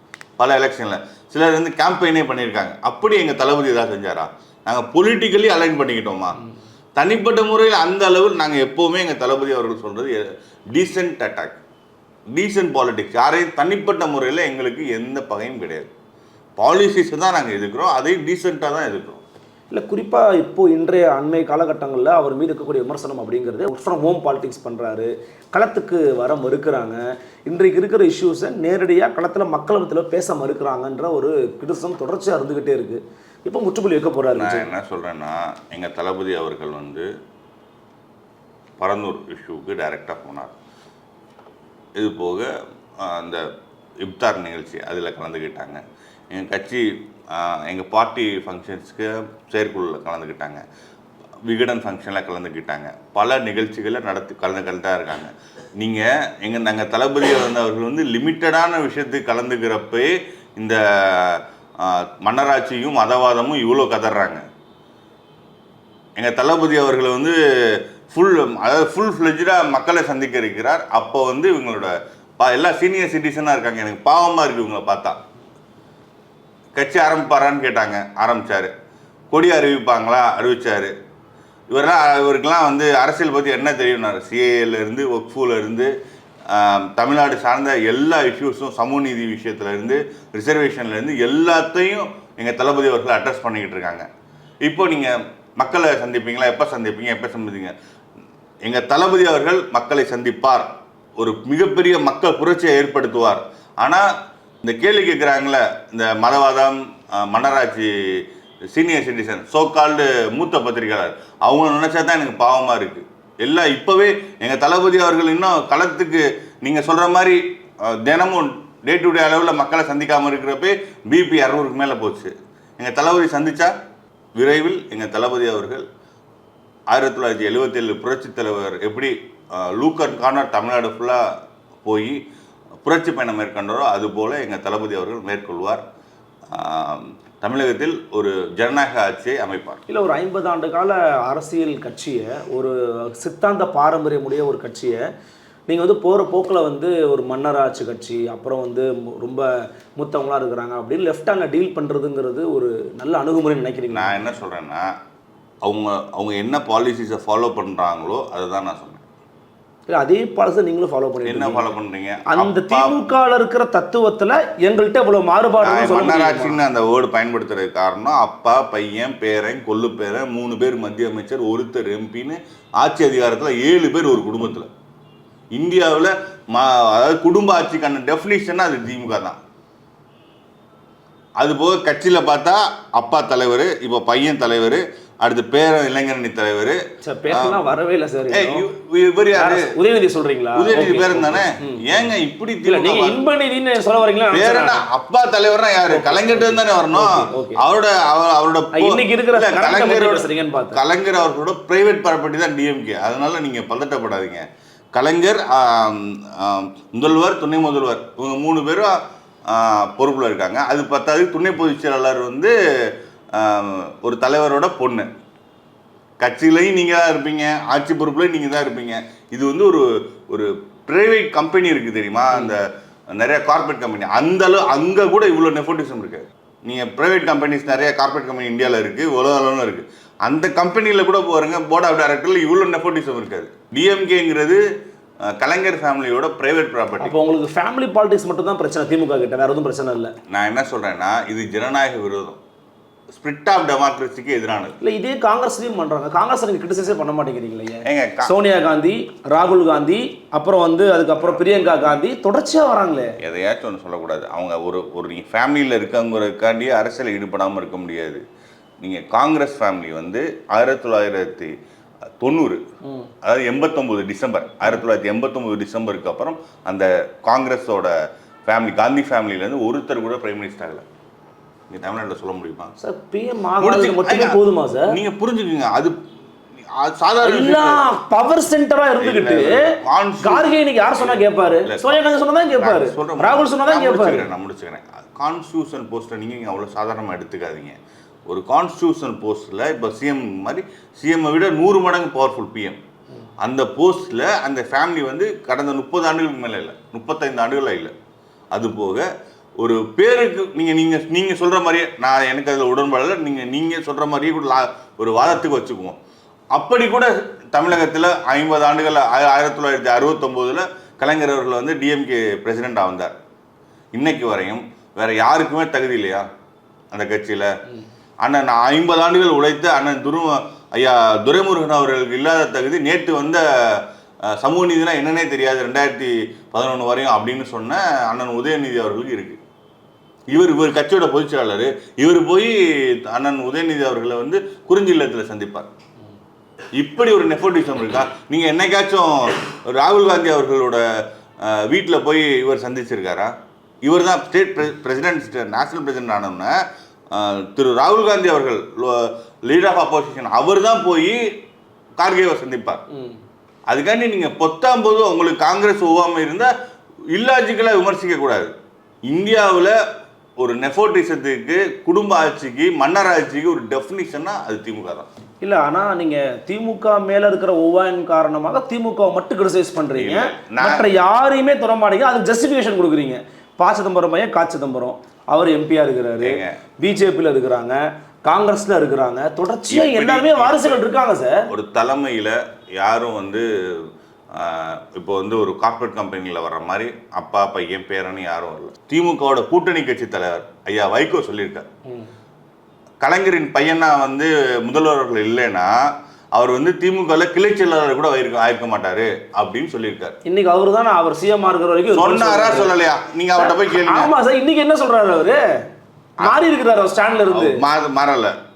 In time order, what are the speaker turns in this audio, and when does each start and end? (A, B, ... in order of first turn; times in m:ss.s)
0:00.4-0:06.4 A
0:07.0-0:10.2 A
0:10.7-0:11.6 A
0:12.3-0:15.9 A
0:16.6-0:19.2 A
0:19.7-0:34.7 B
0:34.4-0:37.1 A
0:38.8-0:40.5 A
0:42.0-0:43.4 A
0:44.0-0:50.6 A
0:51.4-1:04.4 A
1:06.2-1:15.2 A
1:16.7-1:18.7 A
1:19.3-1:20.9 A
1:21.7-1:25.9 A
1:26.5-1:34.0 A
1:34.6-1:37.7 A
1:38.6-1:44.1 A
1:44.6-1:48.2 A
1:48.7-2:03.7 A
2:04.4-2:05.8 A
2:06.9-2:11.2 A
2:11.8-2:12.2 A
2:12.8-2:15.8 A
2:16.5-2:19.8 A
2:19.9-2:25.0 B
2:25.7-2:34.1 B
2:33.9-2:34.9 A
2:35.6-2:39.0 A
2:39.9-2:41.7 B
2:41.2-2:43.1 A
2:42.3-2:46.6 B
2:45.6-2:54.7 A
2:55.5-2:59.4 A
3:01.4-3:07.6 A
3:07.0-3:08.6 B
3:08.3-3:09.7 A
3:09.3-3:12.0 B
3:10.6-3:13.2 A
3:12.6-3:14.8 B
3:14.3-3:29.0 A
3:15.9-3:17.6 B
3:18.7-3:20.8 B
3:29.5-3:32.5 A
3:33.3-3:35.1 A
3:36.2-3:54.6 A
3:55.2-3:57.1 A
3:57.0-4:00.1 B
4:00.3-4:02.4 A
4:03.1-4:04.8 A
4:04.8-4:13.2 B
4:07.8-4:08.3 A
4:11.2-4:12.0 A
4:13.2-4:18.2 A
4:18.8-4:21.5 A
4:22.2-4:22.6 A
4:22.8-4:23.1 B
4:23.2-4:27.9 A
4:28.5-4:30.8 A
4:31.7-4:32.7 A
4:32.8-4:35.0 B
4:33.6-4:36.0 A
4:36.6-4:37.8 A
4:37.2-4:44.2 B
4:39.0-4:42.0 A
4:42.6-4:47.8 A
4:48.3-4:52.8 A
4:53.4-4:57.9 A
4:58.5-4:59.1 A
4:59.6-5:06.0 A
5:06.5-5:13.1 A
5:14.0-5:16.2 A
5:16.9-5:17.5 A
5:18.2-5:29.4 A
5:30.3-5:35.7 A
5:36.8-5:40.8 A
5:41.4-5:43.3 A
5:43.8-5:46.6 A
5:47.1-5:51.3 A
5:52.0-5:52.8 A
5:52.9-5:53.2 B
5:53.7-5:56.5 A
5:57.1-5:58.5 A
5:59.1-5:59.8 A
6:00.4-6:05.1 A
6:05.4-6:21.4 B
6:10.0-6:10.9 A
6:16.2-6:16.6 A
6:19.7-6:20.8 A
6:21.5-6:31.7 A
6:33.0-6:40.2 A
6:40.2-6:42.7 B
6:41.9-6:44.1 A
6:43.3-6:45.6 B
6:46.2-6:47.6 B
6:47.3-6:48.3 A